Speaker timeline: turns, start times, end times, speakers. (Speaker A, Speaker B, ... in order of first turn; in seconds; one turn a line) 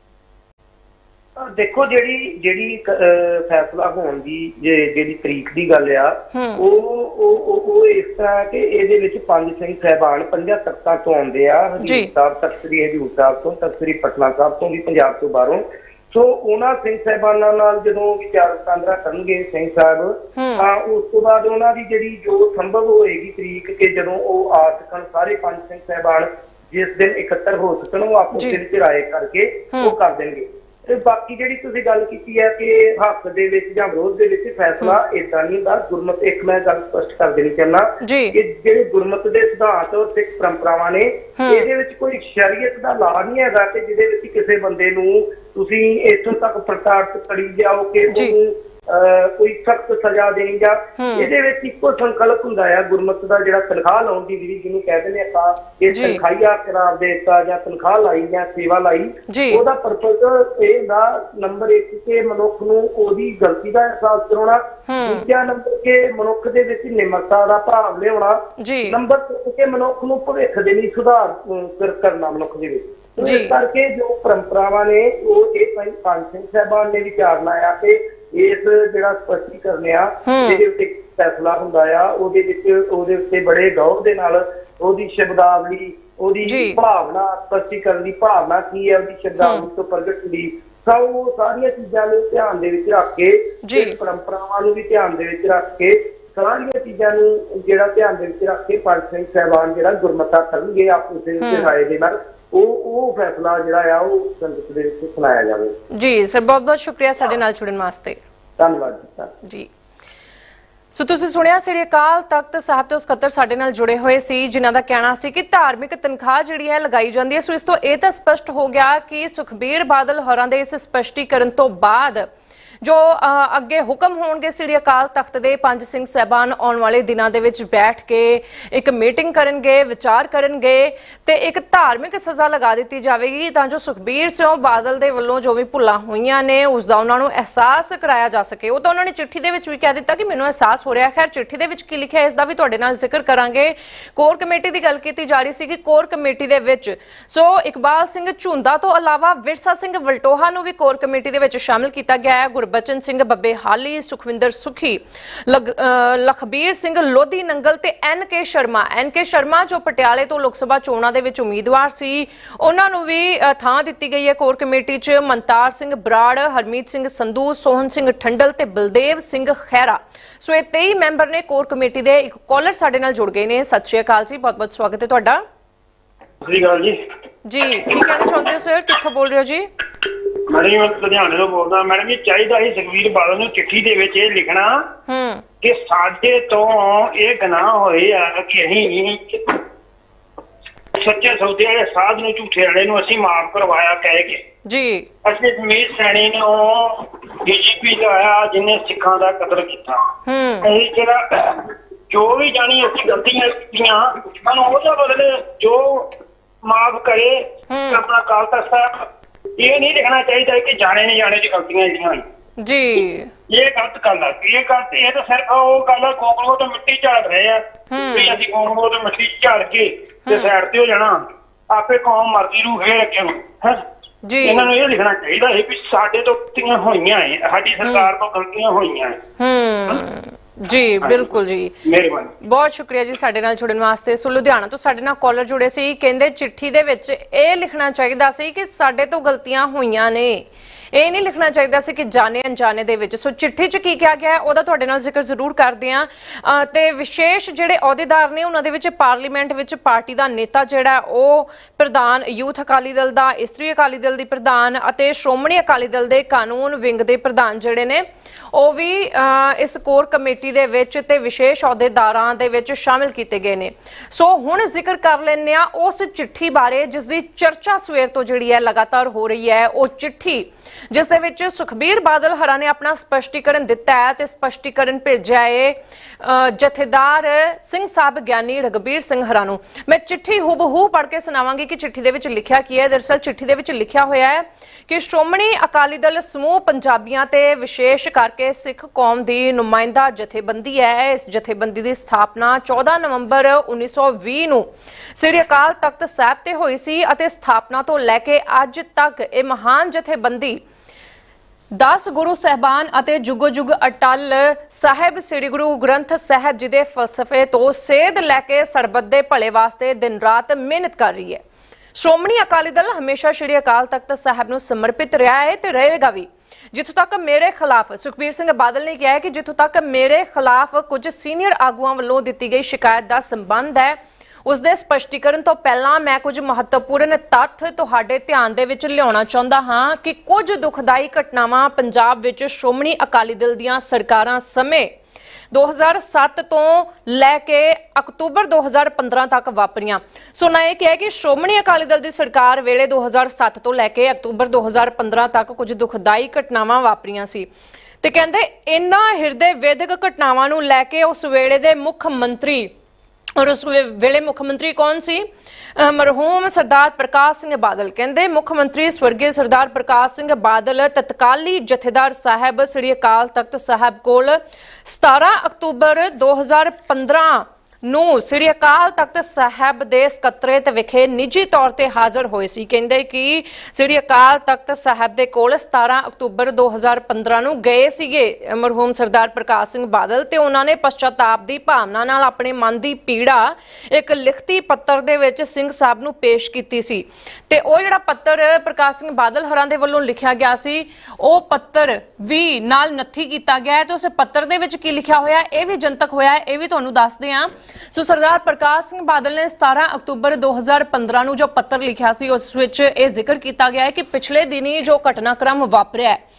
Speaker A: 1.4-105.8
Speaker B: 6.3-6.6
Speaker B: 11.8-12.1
Speaker B: 20.4-20.6
Speaker B: 28.3-28.6
Speaker B: 38.0-38.4
Speaker B: 41.4-41.7
Speaker B: 48.1-48.4
Speaker B: 51.0-51.3
Speaker B: 55.9-56.2
Speaker B: 59.3-59.6
Speaker B: 64.9-65.3
Speaker B: 68.6-69.0
Speaker B: 73.2-73.6
Speaker B: 80.2-80.6
Speaker B: 86.5-86.8
Speaker B: 89.4-89.7
Speaker B: 93.7-94.0
Speaker B: 101.4-101.7
Speaker B: 105.9-108.2
Speaker A: 108.6-109.3
Speaker B: 110.9-122.3
Speaker B: 122.8-175.4
Speaker C: 176.4-177.0
Speaker B: 177.4-179.7
Speaker C: 177.9-178.2
Speaker C: 180.4-184.8
Speaker B: 185.1-185.4
Speaker C: 185.6-189.6
Speaker C: 190.9-194.4
Speaker B: 194.7-195.1
Speaker C: 195.2-200.1
Speaker B: 200.3-200.7
Speaker C: 200.6-212.2
Speaker B: 207.7-208.0
Speaker B: 212.6-213.3
Speaker C: 213.5-223.8
Speaker B: 217.9-218.4
Speaker B: 220.3-220.5
Speaker B: 224.2-224.7
Speaker C: 224.4-229.2
Speaker B: 227.8-228.1
Speaker B: 229.4-231.8
Speaker C: 231.0-231.3
Speaker C: 231.8-232.3
Speaker B: 232.4-300.6
Speaker B: 301.7-311.4
Speaker B: 311.9-334.9
Speaker B: 335.5-347.5
Speaker B: 348.0-352.7
Speaker B: 353.4-406.2